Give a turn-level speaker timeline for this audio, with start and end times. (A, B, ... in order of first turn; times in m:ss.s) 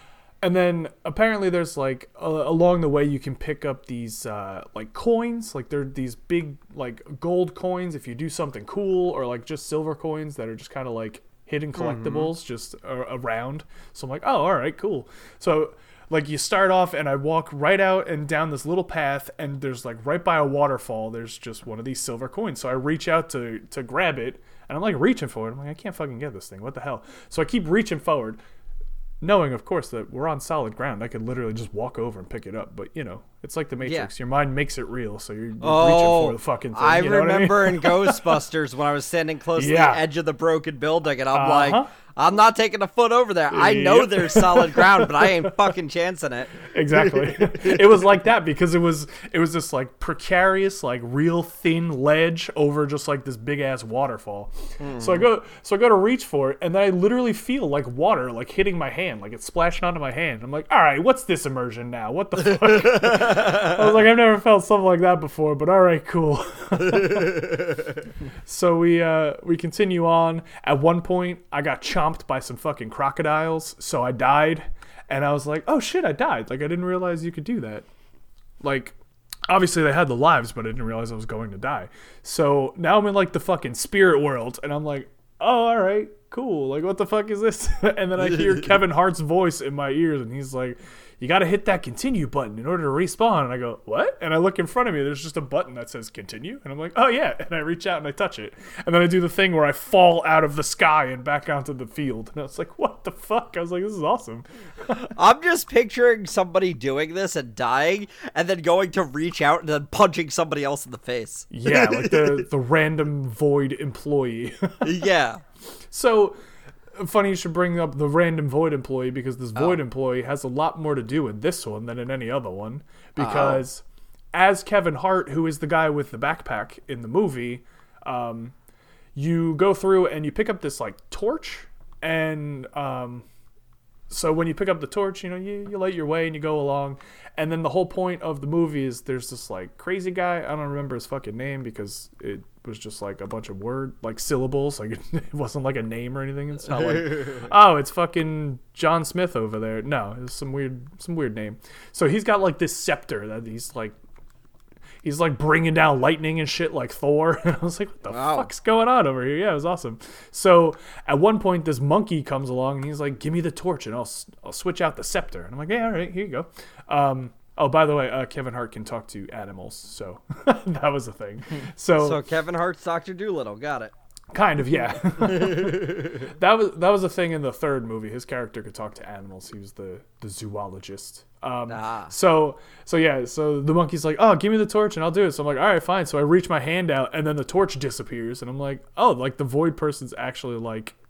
0:00.4-0:28.4 A
0:11.8-0:12.3 B
0:29.2-0:38.4 A
0:33.8-0:34.1 B
0:35.6-0:47.8 B
0:39.6-0:40.0 A
0:41.3-0:41.9 A
0:43.5-0:45.7 A
0:46.7-1:07.6 A
0:54.8-0:55.3 B
1:03.0-1:03.7 B
1:08.4-1:17.9 A
1:18.6-1:19.0 A
1:19.5-1:45.0 A
1:44.9-1:52.4 B
1:51.5-1:55.0 A
1:54.8-1:55.4 B
1:55.9-1:56.4 A
1:56.9-2:08.5 A
2:03.2-2:03.6 B
2:09.2-2:13.3 A
2:14.1-2:34.0 A
2:35.0-2:52.2 A
2:38.1-2:38.5 B
2:52.0-2:53.9 B
2:54.3-3:11.0 A
2:55.3-2:56.1 B
3:01.7-3:02.1 B